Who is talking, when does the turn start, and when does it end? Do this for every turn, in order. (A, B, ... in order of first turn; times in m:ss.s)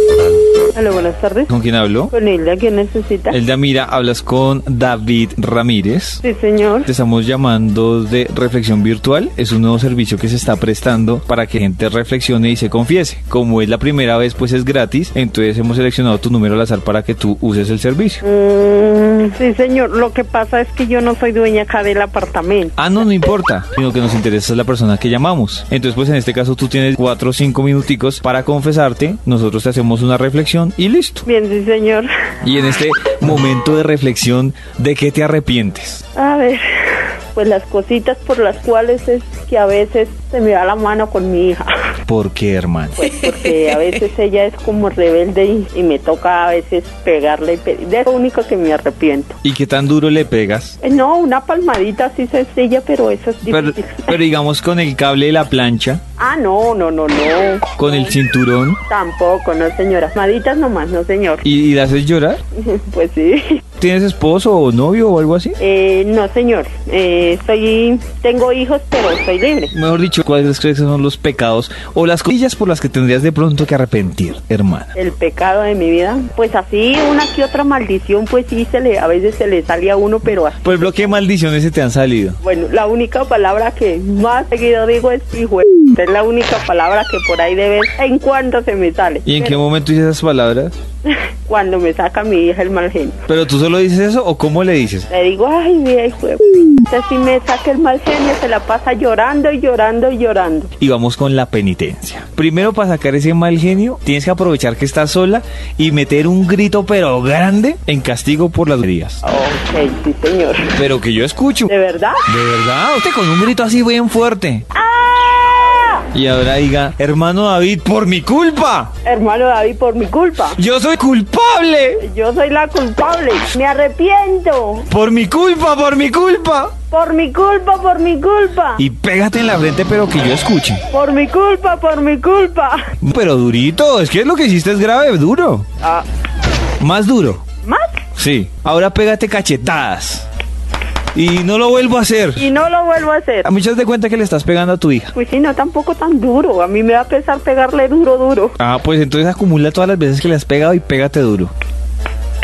0:00.7-0:01.5 A
0:01.5-0:02.1 B
0:02.1-0:03.4 A
0:03.3-0:06.2 B
0:06.2-0:06.9 A
0:06.8-0:18.2 B
0:18.2-0:22.8 A
0:22.8-0:31.2 B
0:31.2-0:32.1 A
0:32.4-0:36.0 B
0:36.1-0:41.9 A
0:42.1-0:43.1 B
0:43.0-0:49.4 A
0:49.4-0:50.8 B
0:50.8-0:54.2 A
0:53.5-0:56.0 B
0:56.2-0:58.2 A
0:57.8-0:58.8 B
0:58.9-1:01.4 A
1:01.4-1:02.4 B
1:02.5-1:03.6 A
1:03.8-1:05.6 B
1:05.6-1:09.7 A
1:09.7-1:14.9 B
1:14.9-1:21.2 A
1:20.6-1:22.4 B
1:22.4-1:29.6 A
1:29.2-1:30.7 B
1:31.0-1:33.2 A
1:33.3-1:35.1 B
1:35.1-1:40.7 A
1:40.8-1:49.2 B
1:49.2-1:50.8 A
1:50.8-1:51.7 B
1:51.7-1:52.2 A
1:52.3-1:54.6 B
1:54.7-1:56.1 A
1:56.1-1:58.9 B
1:59.0-2:00.6 A
2:00.5-2:02.0 B
2:02.0-2:04.9 A
2:04.9-2:06.7 B
2:06.9-2:08.8 A
2:08.8-2:10.8 B
2:10.9-2:12.9 A
2:13.0-2:15.6 B
2:16.8-2:17.4 B
2:17.6-2:18.0 A
2:18.2-2:20.3 B
2:21.1-2:22.4 B
2:22.4-2:23.5 A
2:23.4-2:25.1 B
2:25.1-2:28.6 A
2:28.6-2:31.5 B